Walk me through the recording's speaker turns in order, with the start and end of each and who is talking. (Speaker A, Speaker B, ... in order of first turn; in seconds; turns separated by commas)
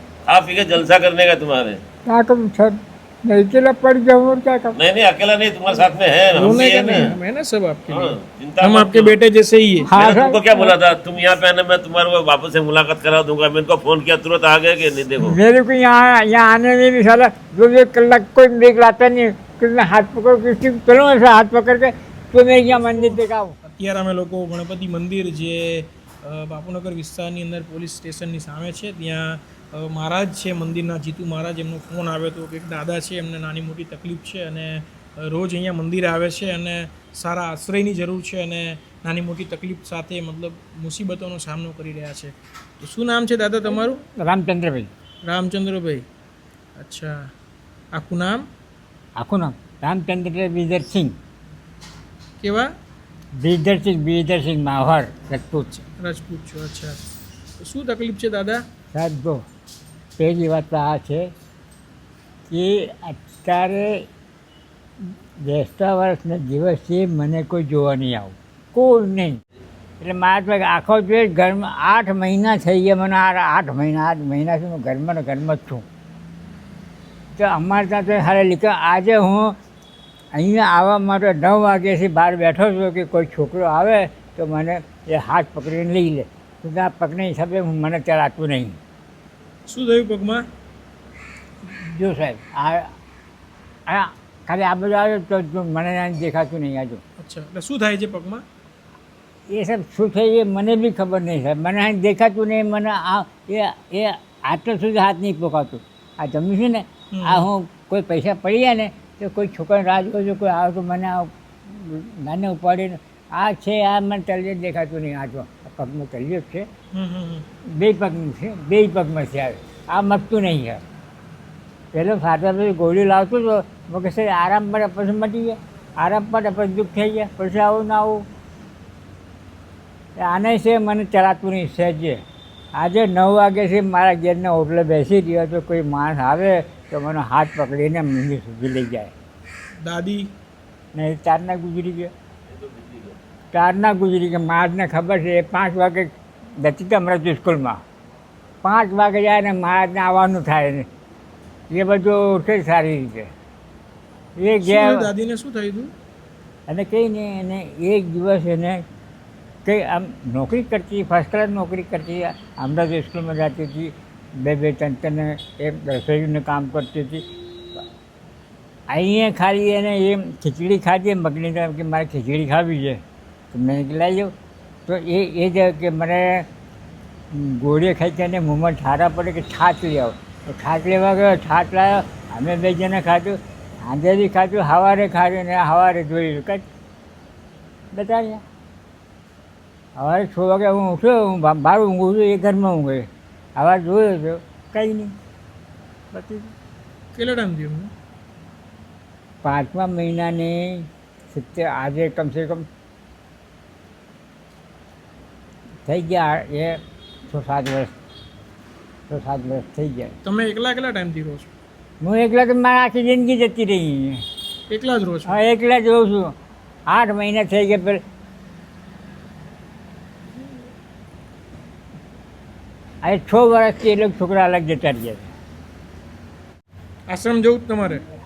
Speaker A: 0.3-1.8, Speaker B: 2.1-4.8, Speaker A: 4.7-7.1, Speaker C: 6.3-9.9, Speaker A: 7.9-9.2, Speaker B: 9.8-10.7, Speaker A: 9.9-15.4, Speaker B: 15.2-23.6, Speaker C: 23.6-44.0, Speaker B: 43.7-44.9, Speaker C: 45.2-46.0, Speaker C: 46.8-47.2, Speaker C: 47.9-48.4, Speaker B: 49.2-51.1, Speaker C: 52.4-52.7, Speaker B: 53.4-55.8, Speaker C: 55.9-57.0, Speaker C: 57.6-58.6, Speaker B: 58.9-59.4, Speaker B: 60.2-61.3, Speaker B: 62.5-64.0, Speaker B: 65.0-69.4, Speaker B: 70.0-75.8, Speaker B: 77.3-79.5, Speaker B: 80.3-88.8, Speaker C: 89.7-90.4, Speaker B: 91.6-92.9, Speaker B: 93.9-97.0, Speaker C: 97.2-98.4, Speaker B: 99.5-116.7, Speaker C: 107.1-107.5, Speaker C: 116.9-117.4, Speaker B: 117.8-120.8, Speaker B: 121.9-128.2, Speaker B: 130.2-132.2, Speaker B: 132.8-139.1, Speaker C: 139.8-140.3, Speaker B: 140.9-142.1, Speaker A: 142.5-143.2, Speaker B: 143.5-147.8, Speaker B: 148.6-150.8, Speaker B: 151.7-153.3, Speaker B: 154.4-155.1, Speaker C: 154.4-155.9, Speaker B: 156.7-158.8, Speaker B: 159.6-167.2, Speaker B: 168.9-174.3, Speaker B: 174.9-176.5, Speaker B: 177.3-186.6, Speaker B: 187.9-188.4, Speaker B: 190.0-195.1, Speaker B: 196.1-196.5, Speaker C: 197.1-197.9, Speaker B: 199.4-202.7, Speaker B: 205.8-207.9, Speaker B: 209.1-210.1, Speaker C: 210.2-211.5, Speaker B: 212.0-214.2, Speaker C: 214.7-215.4, Speaker B: 215.3-216.3, Speaker B: 216.9-218.0, Speaker B: 223.0-225.3, Speaker C: 227.1-228.0